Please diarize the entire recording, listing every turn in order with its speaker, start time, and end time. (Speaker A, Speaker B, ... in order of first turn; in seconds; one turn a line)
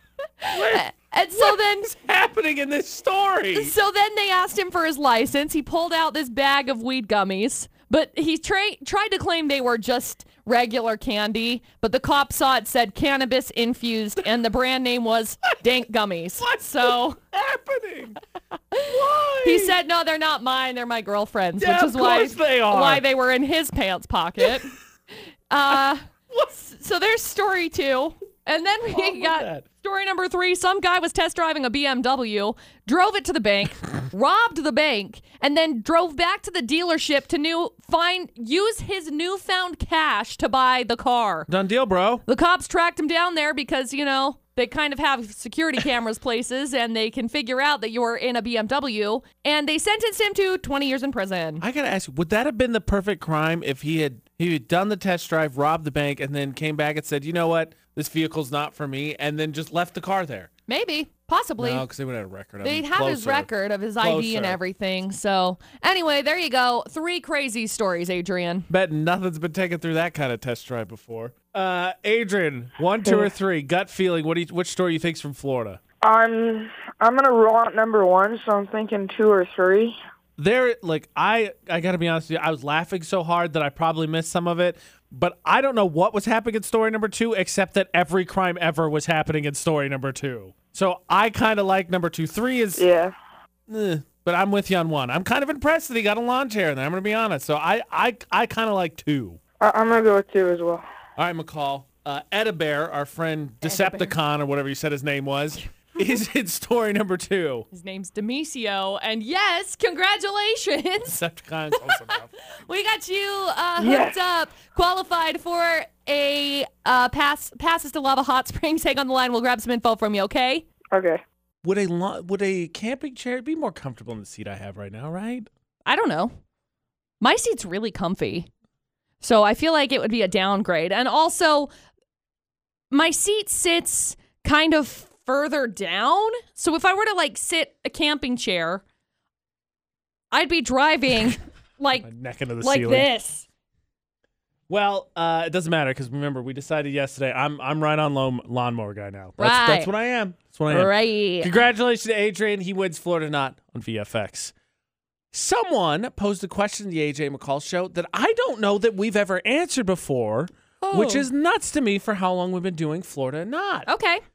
Speaker A: 0.4-1.9
Speaker B: 0.5-3.7
Speaker A: 3.5-17.2
Speaker B: 16.4-18.2
Speaker A: 18.7-24.7
Speaker B: 18.8-19.8
Speaker B: 21.6-23.0
Speaker A: 25.5-41.5
Speaker B: 28.9-29.6
Speaker B: 41.5-42.2
Speaker A: 42.3-51.6
Speaker B: 51.6-60.5
Speaker A: 60.7-61.9
Speaker B: 61.6-63.5
Speaker A: 62.6-68.7
Speaker B: 64.0-64.6
Speaker B: 68.7-75.8
Speaker C: 76.0-80.0
Speaker B: 80.4-92.8
Speaker C: 92.8-93.1
Speaker B: 93.7-99.4
Speaker C: 99.6-100.8
Speaker B: 101.2-107.7
Speaker A: 103.7-104.1
Speaker A: 107.7-111.2
Speaker B: 111.1-112.3
Speaker A: 111.7-120.7
Speaker C: 113.8-114.2
Speaker C: 120.9-121.2
Speaker B: 121.6-125.5
Speaker A: 125.9-126.3
Speaker A: 127.2-128.5
Speaker A: 129.2-131.7
Speaker A: 132.9-138.8
Speaker A: 140.3-142.1
Speaker B: 142.0-143.1
Speaker A: 142.6-143.5
Speaker B: 144.7-154.5
Speaker A: 149.4-149.9
Speaker A: 150.7-151.6
Speaker B: 155.3-163.9
Speaker A: 160.8-161.3
Speaker A: 163.9-164.2